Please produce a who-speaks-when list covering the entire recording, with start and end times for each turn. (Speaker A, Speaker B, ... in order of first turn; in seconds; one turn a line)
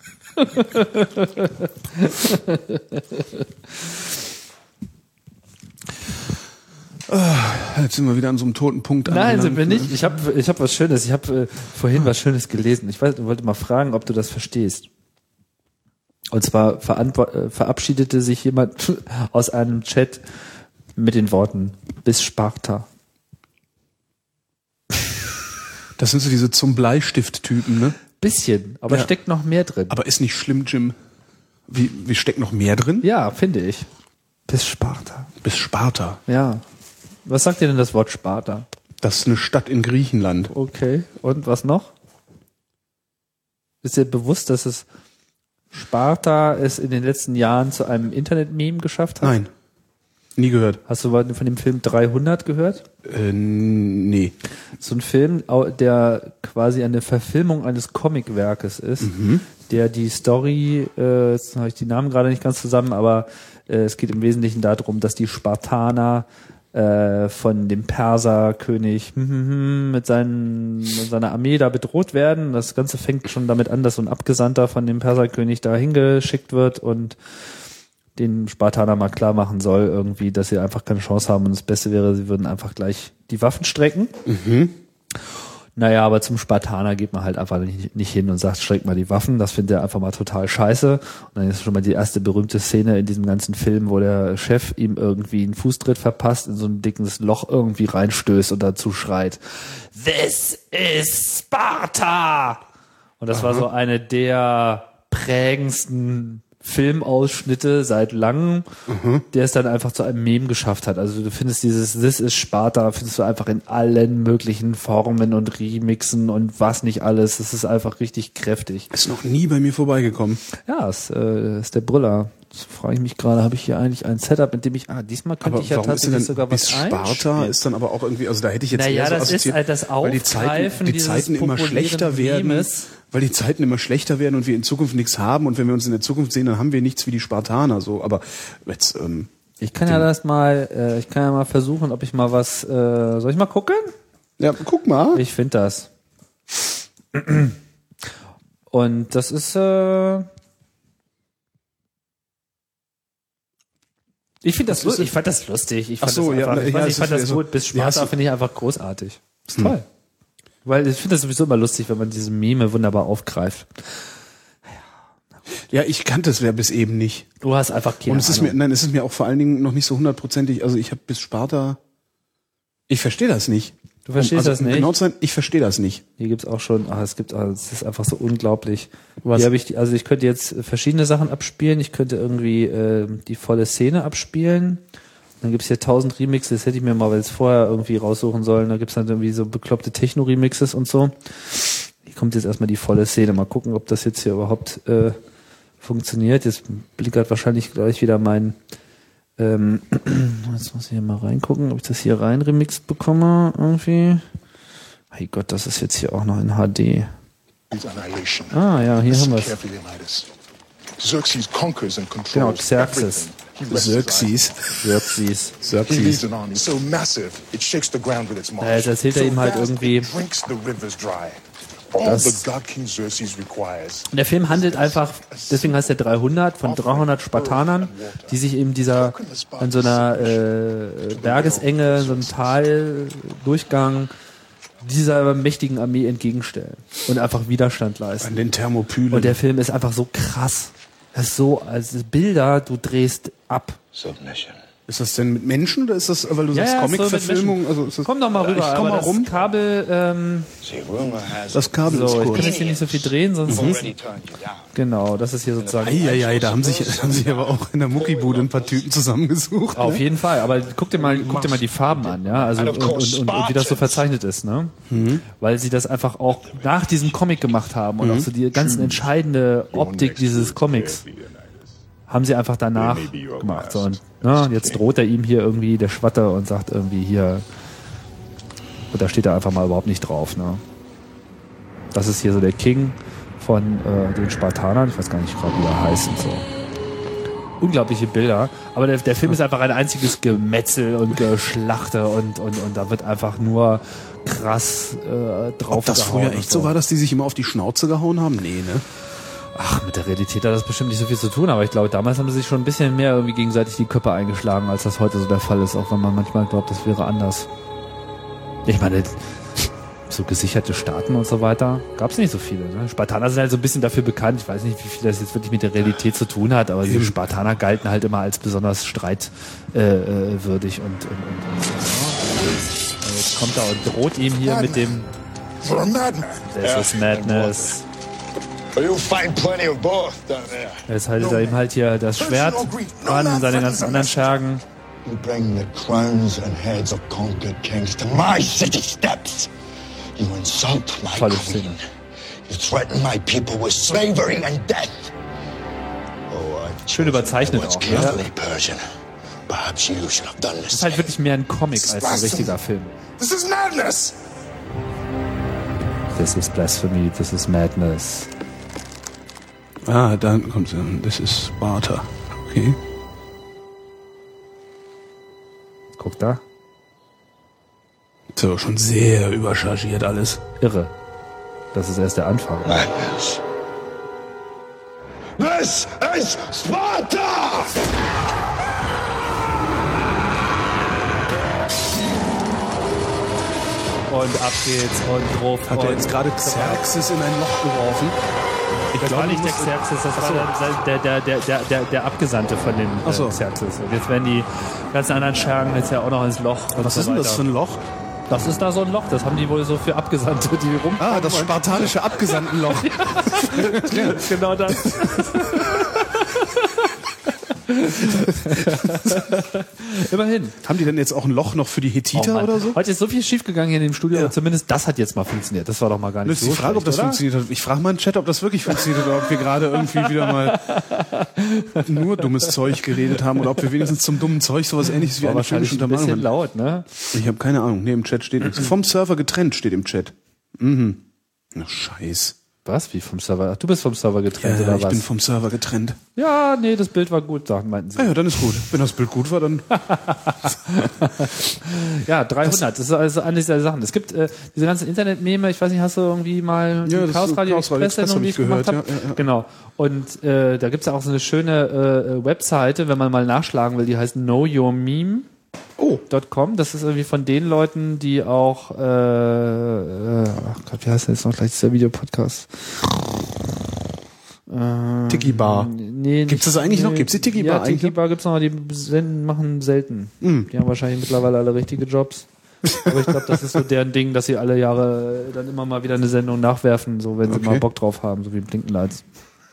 Speaker A: 0.4-3.5
Speaker B: 7.1-10.0
Speaker A: 9.1-14.9
Speaker A: 16.3-20.2
Speaker A: 20.9-22.9
Speaker B: 26.0-28.0
Speaker A: 28.2-30.0
Speaker B: 29.9-30.9
Speaker B: 31.7-33.1
Speaker A: 33.0-33.9
Speaker A: 34.5-35.3
Speaker B: 35.4-36.2
Speaker A: 36.3-36.6
Speaker A: 37.2-38.7
Speaker B: 39.0-40.5
Speaker A: 40.5-41.9
Speaker A: 43.8-44.9
Speaker A: 45.7-49.4
Speaker B: 49.2-49.5
Speaker B: 50.4-50.8
Speaker A: 50.9-52.8
Speaker B: 53.0-54.3
Speaker A: 54.8-59.1
Speaker B: 59.0-59.5
Speaker A: 59.6-77.2
Speaker A: 78.2-84.1
Speaker B: 84.2-84.8
Speaker A: 85.8-102.6
Speaker A: 103.2-108.7
Speaker B: 103.3-103.6
Speaker B: 108.9-109.2
Speaker A: 109.3-118.9
Speaker B: 118.9-120.4
Speaker A: 120.7-127.6
Speaker B: 125.4-139.3
Speaker A: 128.7-132.9
Speaker A: 139.6-143.9
Speaker B: 144.4-145.2
Speaker A: 145.1-145.9
Speaker A: 147.1-147.6
Speaker A: 148.7-150.3
Speaker A: 154.4-159.8
Speaker B: 154.7-155.1
Speaker B: 156.0-158.1
Speaker B: 159.5-159.7
Speaker A: 160.6-163.8
Speaker B: 165.7-167.3
Speaker A: 167.4-168.6
Speaker B: 168.1-171.8
Speaker B: 172.9-176.0
Speaker A: 174.1-174.9
Speaker A: 176.2-184.8
Speaker B: 179.2-179.5
Speaker A: 185.4-195.2
Speaker A: 195.8-198.6
Speaker A: 199.4-204.2
Speaker A: 205.1-207.1
Speaker C: 207.7-210.3
Speaker A: 208.5-209.6
Speaker C: 211.0-214.6
Speaker A: 212.3-213.3
Speaker B: 213.7-214.6
Speaker A: 214.8-215.6
Speaker B: 215.6-216.2
Speaker C: 215.8-225.9
Speaker A: 218.6-220.1
Speaker A: 222.0-222.5
Speaker A: 224.1-234.1
Speaker C: 226.6-228.4
Speaker C: 228.9-230.5
Speaker C: 231.1-232.6
Speaker A: 234.8-238.4
Speaker B: 238.2-239.4
Speaker A: 239.1-243.8
Speaker D: 243.9-244.6
Speaker B: 244.9-249.3
Speaker A: 246.5-250.5
Speaker D: 250.6-254.7
Speaker B: 251.5-252.5
Speaker A: 251.8-253.8
Speaker B: 253.5-253.8
Speaker A: 254.7-256.2
Speaker D: 255.6-258.8
Speaker B: 255.8-260.1
Speaker A: 259.7-271.0
Speaker C: 261.1-261.8
Speaker D: 262.3-264.1
Speaker B: 264.9-265.2
Speaker B: 268.0-268.3
Speaker C: 268.8-269.1
Speaker C: 269.7-271.7
Speaker A: 272.1-277.4
Speaker C: 272.7-274.8
Speaker A: 278.9-280.6
Speaker A: 281.9-286.5
Speaker A: 287.6-296.7
Speaker B: 295.7-298.8
Speaker A: 299.5-307.5
Speaker A: 308.6-309.2
Speaker A: 310.1-325.1
Speaker B: 316.8-317.2
Speaker C: 324.4-325.1
Speaker C: 325.6-326.5
Speaker A: 326.4-327.8
Speaker D: 326.6-327.6
Speaker D: 328.8-330.8
Speaker A: 330.9-334.6
Speaker C: 331.2-331.6
Speaker C: 332.1-334.3
Speaker D: 335.0-339.5
Speaker D: 340.2-341.8
Speaker A: 341.1-341.8
Speaker D: 342.5-345.1
Speaker D: 346.3-348.8
Speaker A: 346.9-348.2
Speaker D: 349.5-351.1
Speaker A: 350.7-352.9
Speaker C: 351.8-352.6
Speaker C: 353.2-354.2
Speaker A: 356.1-358.3
Speaker B: 359.8-362.8
Speaker A: 366.0-366.4
Speaker B: 368.3-370.4
Speaker A: 370.6-370.9
Speaker A: 371.7-372.8
Speaker D: 372.6-373.4
Speaker D: 375.4-377.8
Speaker A: 384.1-386.9
Speaker B: 385.7-388.2
Speaker B: 388.9-390.5
Speaker A: 389.0-397.4
Speaker B: 393.0-393.4
Speaker B: 396.8-397.8
Speaker A: 398.3-410.6
Speaker B: 401.0-406.0
Speaker B: 408.0-409.4
Speaker B: 410.6-412.8
Speaker A: 412.1-417.2
Speaker B: 416.2-420.7
Speaker A: 419.8-423.7
Speaker B: 421.8-426.3
Speaker A: 425.2-426.9
Speaker B: 427.1-432.4
Speaker A: 432.6-435.0
Speaker B: 434.4-436.0
Speaker A: 436.1-438.2
Speaker B: 437.9-439.7
Speaker A: 439.7-455.3
Speaker B: 446.8-449.2
Speaker A: 456.1-462.9
Speaker A: 464.5-479.0
Speaker B: 465.1-465.7
Speaker B: 466.3-467.9
Speaker B: 470.2-470.5
Speaker B: 477.3-477.6